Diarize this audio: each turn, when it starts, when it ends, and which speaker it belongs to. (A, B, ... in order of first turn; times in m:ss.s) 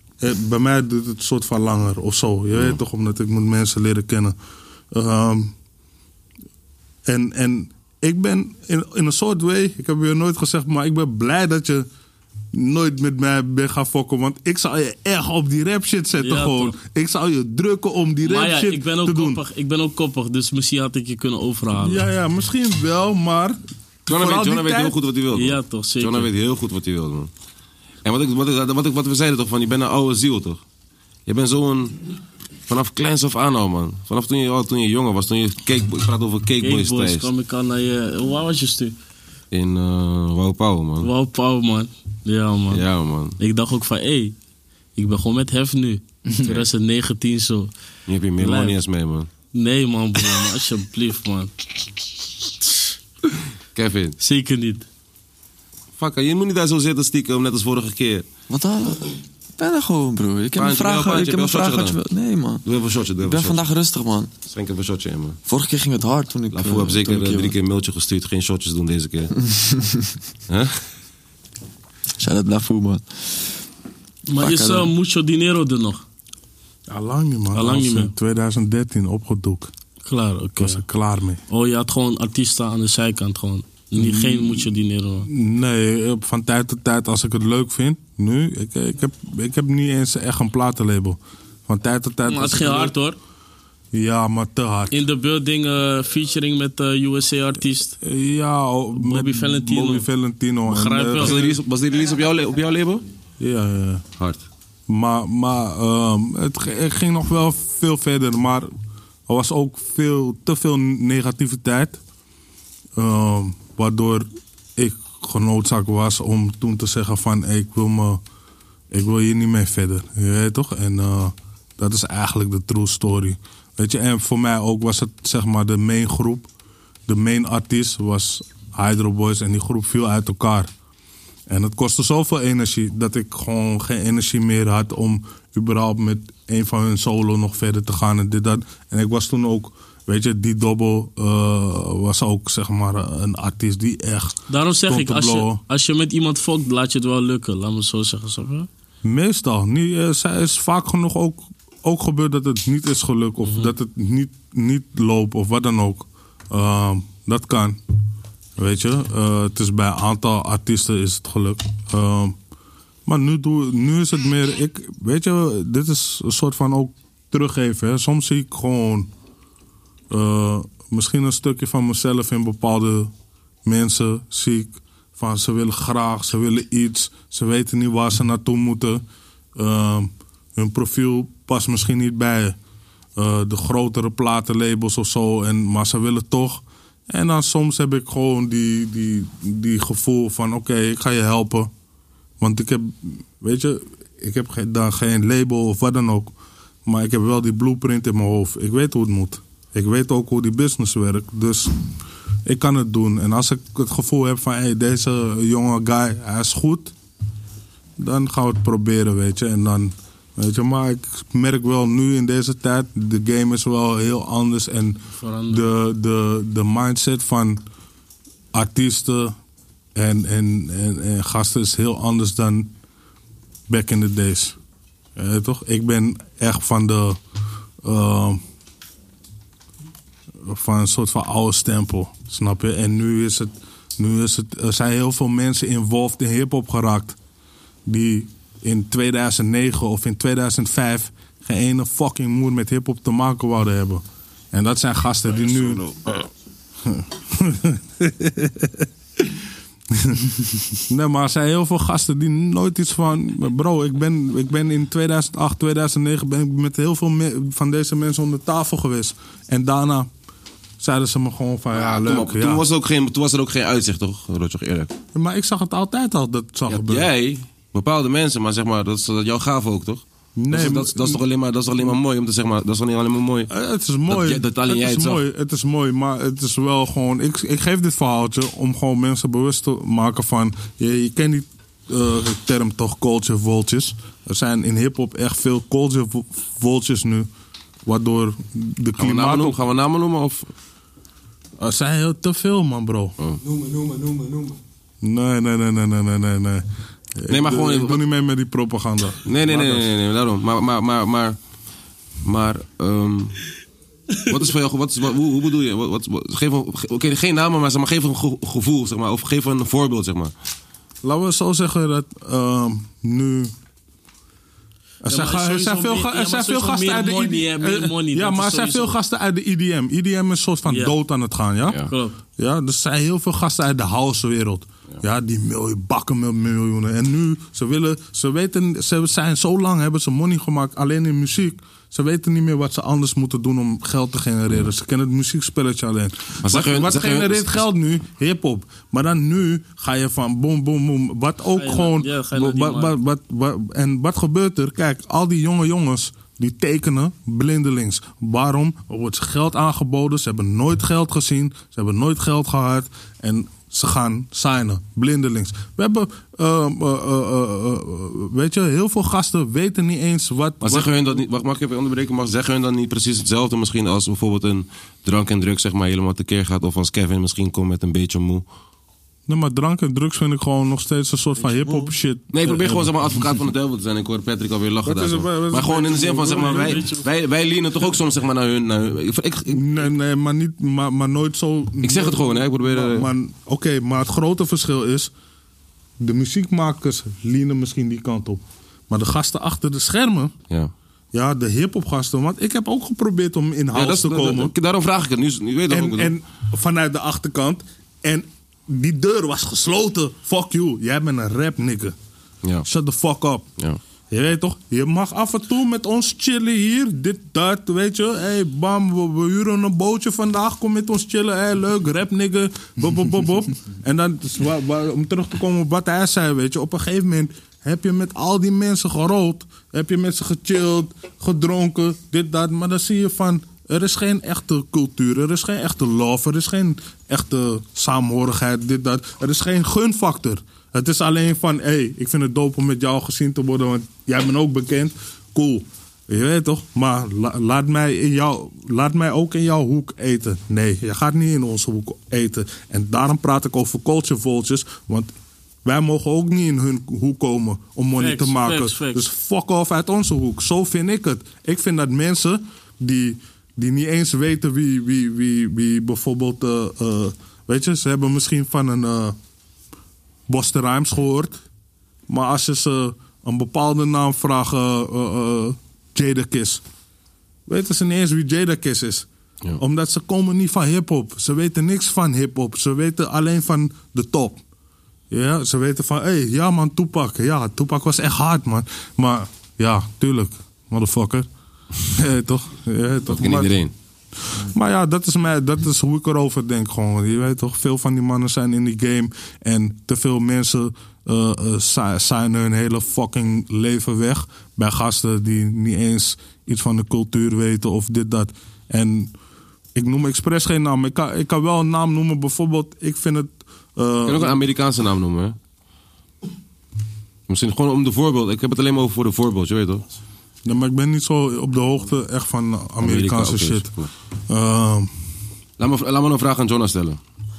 0:00.2-0:04.4 A
0:04.9-0:05.5 A
0:07.1-0:11.9 A
0:12.5-0:19.4 A
0:16.2-0:16.7 B
0:18.2-0:22.0 B
0:21.8-0:25.0 A
0:24.1-0:27.3 C
0:25.3-0:26.3 B
0:28.0-0:30.6 C
0:31.3-0:32.0 C
0:32.7-0:37.3 C
0:36.6-0:39.0 B
0:39.5-0:41.1 C
0:41.0-0:42.8 B
0:42.7-0:43.4 C
0:43.4-0:44.4 B
0:45.0-0:47.7 B
0:46.4-0:46.7 C
0:48.1-0:49.3 C
0:48.4-0:48.8 B
0:49.5-0:51.5 B
0:53.8-0:54.2 C
0:54.2-0:54.9 B
0:56.0-0:58.3 C
0:58.5-1:02.6 D
1:00.6-1:02.0 C
1:02.6-1:03.6 C
1:03.2-1:04.3 D
1:04.5-1:05.4 C
1:05.5-1:07.6 D
1:06.5-1:09.3 C
1:09.4-1:10.2 D
1:10.5-1:10.8 C
1:12.2-1:13.5 D
1:14.3-1:16.0 B
1:14.4-1:14.9 D
1:16.9-1:19.7 A
1:17.5-1:18.1 B
1:20.0-1:20.8 B
1:20.6-1:21.4 A
1:21.5-1:25.3 B
1:24.0-1:24.7 A
1:25.2-1:33.0 A
1:32.3-1:33.2 B
1:33.9-1:35.0 A
1:34.9-1:38.0 B
1:38.0-1:41.6 A
1:39.0-1:40.1 B
1:40.7-1:41.3 B
1:41.2-1:43.0 C
1:43.4-1:44.0 A
1:44.2-1:44.4 C
1:44.9-1:48.7 A
1:49.3-1:52.0 A
1:53.0-1:58.2 A
1:58.9-2:06.5 A
2:07.1-2:10.7 A
2:11.5-2:25.6 A
2:24.5-2:28.7 B
2:29.0-2:37.8 A
2:38.6-2:42.4 A
2:43.1-2:49.1 A
2:50.1-2:53.1 A
2:53.6-2:59.0 A
2:59.6-3:02.6 A
3:03.2-3:11.7 A
3:12.4-3:16.3 A
3:16.8-3:21.8 A
3:22.5-3:26.9 A
3:28.0-3:37.6 A
3:35.2-3:35.6 B
3:38.5-3:39.4 A
3:40.0-3:42.7 A
3:43.7-3:44.6 A
3:45.2-3:47.2 A
3:47.8-3:48.4 A
3:50.4-3:57.2 A
3:57.9-4:05.8 A
4:05.3-4:06.2 C
4:06.8-4:09.4 A
4:09.9-4:20.1 A
4:20.8-4:22.6 A
4:21.7-4:24.9 C
4:25.1-4:27.1 A
4:26.7-4:33.5 C
4:30.4-4:31.2 A
4:33.5-4:47.3 A
4:34.1-4:35.2 C
4:47.8-4:49.6 A
4:49.0-4:50.5 C
4:51.6-4:53.2 A
4:53.6-4:54.4 D
4:55.0-4:59.9 A
4:57.3-4:58.0 C
4:59.2-5:01.4 C
5:02.2-5:03.4 C
5:04.2-5:10.3 C
5:11.0-5:13.5 A
5:15.0-5:21.8 A
5:15.1-5:18.9 B
5:20.7-5:20.9 B
5:21.9-5:22.2 B
5:22.4-6:01.0 A
5:36.4-5:37.6 C
5:41.6-5:42.9 B
6:00.6-6:08.4 C
6:09.3-6:12.9 A
6:11.4-6:11.9 D
6:12.3-6:19.9 C
6:14.8-6:16.9 A
6:16.3-6:17.1 B
6:19.5-6:25.1 A
6:21.8-6:23.1 C
6:26.0-6:30.3 A
6:31.1-6:34.5 A
6:33.7-6:36.1 C
6:35.7-6:42.0 A
6:42.7-6:43.5 A
6:44.1-7:25.1 A
7:25.6-7:39.2 A
7:28.0-7:29.1 B
7:40.3-7:41.4 A
7:42.1-7:46.6 A
7:47.5-7:49.1 A
7:49.6-7:54.4 A
7:55.1-8:01.3 A
8:01.9-8:03.6 A
8:03.1-8:03.7 C
8:04.2-8:19.2 A
8:19.8-8:24.4 A
8:24.1-8:25.4 C
8:27.3-8:29.8 C
8:30.4-8:33.7 A
8:32.8-8:33.9 C
8:34.3-8:34.9 A
8:35.6-8:37.0 C